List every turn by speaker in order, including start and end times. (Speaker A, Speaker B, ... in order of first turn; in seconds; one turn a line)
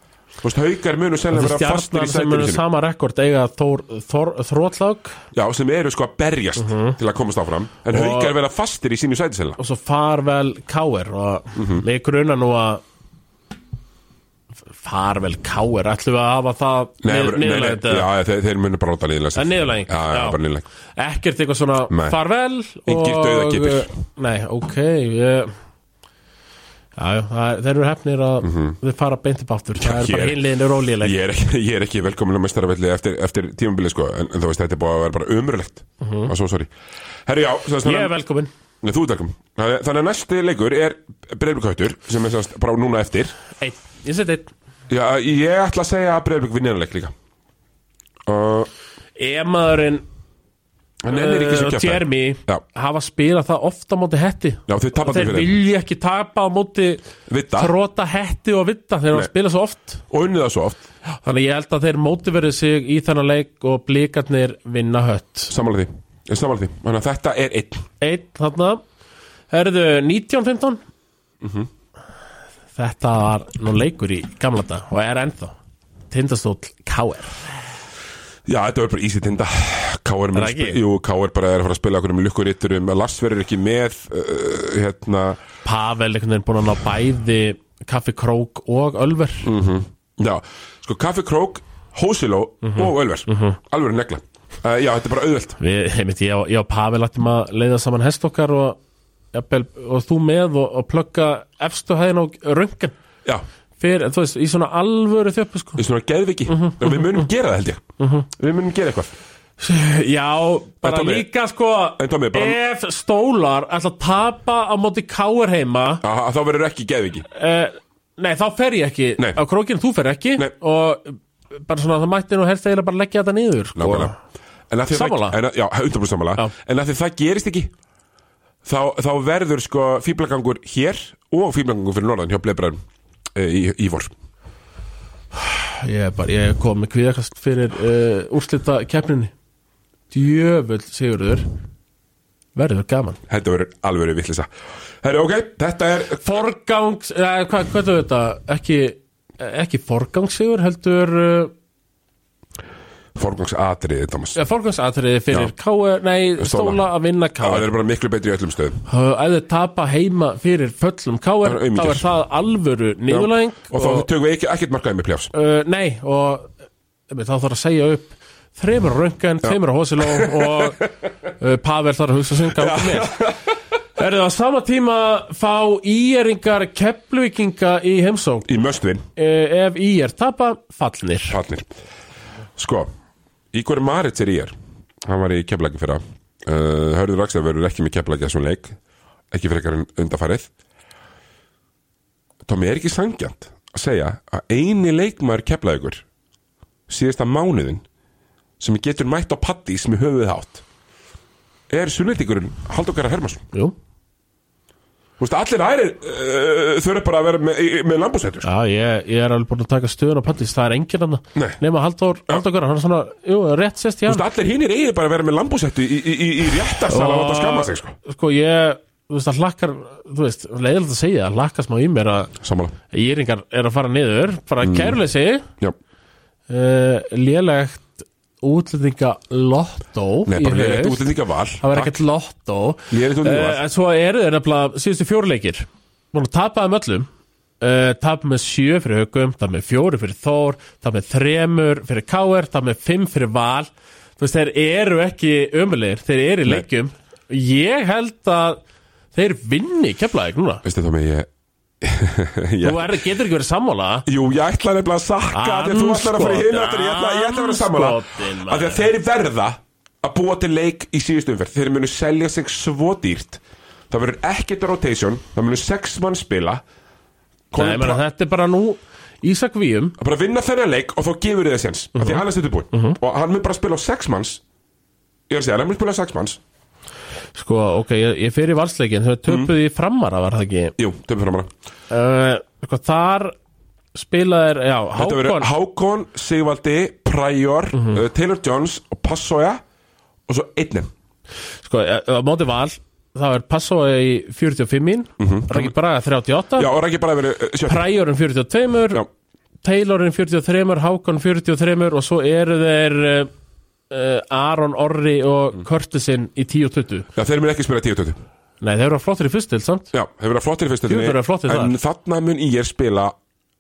Speaker A: 0.4-2.6
Speaker B: 1.3-5.2
Speaker A: 5.3-9.6
Speaker B: 6.6-7.0
Speaker B: 7.9-8.3
Speaker B: 9.6-12.8
Speaker A: 11.6-11.8
Speaker B: 14.8-18.1
Speaker A: 17.0-20.6
Speaker B: 19.4-20.4
Speaker B: 21.0-25.6
Speaker A: 21.9-22.2
Speaker A: 22.9-23.9
Speaker B: 27.0-31.2
Speaker A: 28.4-28.8
Speaker A: 29.8-30.4
Speaker A: 31.0-36.7
Speaker B: 36.0-36.3
Speaker A: 37.3-38.1
Speaker B: 37.8-38.5
Speaker A: 38.8-43.4
Speaker B: 43.6-44.5
Speaker A: 44.9-47.1
Speaker A: 48.3-48.7
Speaker B: 49.2-50.0
Speaker A: 51.0-52.6
Speaker B: 51.1-57.0
Speaker A: 54.7-55.5
Speaker A: 57.3-57.7
Speaker B: 57.5-60.0
Speaker A: 60.1-60.8
Speaker B: 61.2-65.5
Speaker A: 65.5-67.9
Speaker B: 68.0-68.8
Speaker B: 69.5-70.8
Speaker A: 71.4-71.7
Speaker B: 72.8-75.5
Speaker B: 76.1-77.4
Speaker A: 78.5-85.4
Speaker B: 80.3-80.8
Speaker B: 85.7-89.5
Speaker A: 89.4-95.6
Speaker B: 92.6-93.6
Speaker B: 95.6-98.8
Speaker B: 99.3-103.0
Speaker B: 103.8-105.8
Speaker A: 105.8-109.1
Speaker B: 106.5-107.2
Speaker B: 108.0-108.3
Speaker B: 109.6-116.0
Speaker A: 110.8-111.3
Speaker A: 112.0-112.6
Speaker A: 116.0-117.3
Speaker B: 117.3-124.2
Speaker A: 123.8-124.1
Speaker A: 124.7-127.7
Speaker B: 124.9-125.4
Speaker A: 128.7-132.8
Speaker A: 133.3-134.1
Speaker B: 135.3-139.3
Speaker B: 140.1-141.5
Speaker B: 142.6-143.2
Speaker A: 143.3-144.5
Speaker A: 145.0-146.2
Speaker B: 146.2-151.5
Speaker A: 153.2-154.4
Speaker B: 154.3-157.7
Speaker A: 156.4-156.8
Speaker A: 157.4-158.8
Speaker B: 158.9-164.1
Speaker A: 161.4-162.1
Speaker A: 163.1-165.3
Speaker B: 165.3-166.5
Speaker B: 167.1-170.9
Speaker A: 169.4-170.7
Speaker B: 171.4-173.2
Speaker A: 172.6-173.4
Speaker B: 174.0-178.6
Speaker A: 178.5-179.0
Speaker B: 179.2-181.4
Speaker A: 181.3-181.7
Speaker A: 182.6-182.9
Speaker A: 183.5-188.8
Speaker A: 189.3-190.5
Speaker A: 192.4-196.0
Speaker A: 196.9-197.8
Speaker A: 198.6-200.6
Speaker A: 201.7-203.4
Speaker A: 205.2-208.5
Speaker B: 208.4-214.2
Speaker A: 214.1-218.0
Speaker B: 216.9-222.3
Speaker A: 222.4-222.8
Speaker B: 222.9-225.5
Speaker A: 224.6-225.0
Speaker B: 226.5-237.1
Speaker A: 230.3-232.0
Speaker A: 232.9-233.6
Speaker B: 237.6-248.6
Speaker B: 249.1-250.6
Speaker A: 250.6-251.3
Speaker A: 251.8-253.0
Speaker B: 252.6-254.1
Speaker A: 254.1-266.6
Speaker B: 255.3-258.9
Speaker A: 267.5-268.0
Speaker B: 267.6-270.0
Speaker A: 270.0-274.4
Speaker B: 272.0-273.0
Speaker A: 275.3-276.4
Speaker B: 277.4-280.8
Speaker A: 279.3-279.5
Speaker A: 280.8-281.5
Speaker B: 281.9-283.4
Speaker B: 283.9-285.5
Speaker A: 285.0-289.6
Speaker A: 290.3-290.9
Speaker B: 291.6-296.7
Speaker A: 295.2-295.7
Speaker A: 296.6-297.9
Speaker B: 297.7-299.0
Speaker B: 299.6-303.3
Speaker B: 303.9-307.1
Speaker A: 307.1-308.2
Speaker B: 308.6-309.9
Speaker A: 309.9-313.1
Speaker B: 310.9-311.8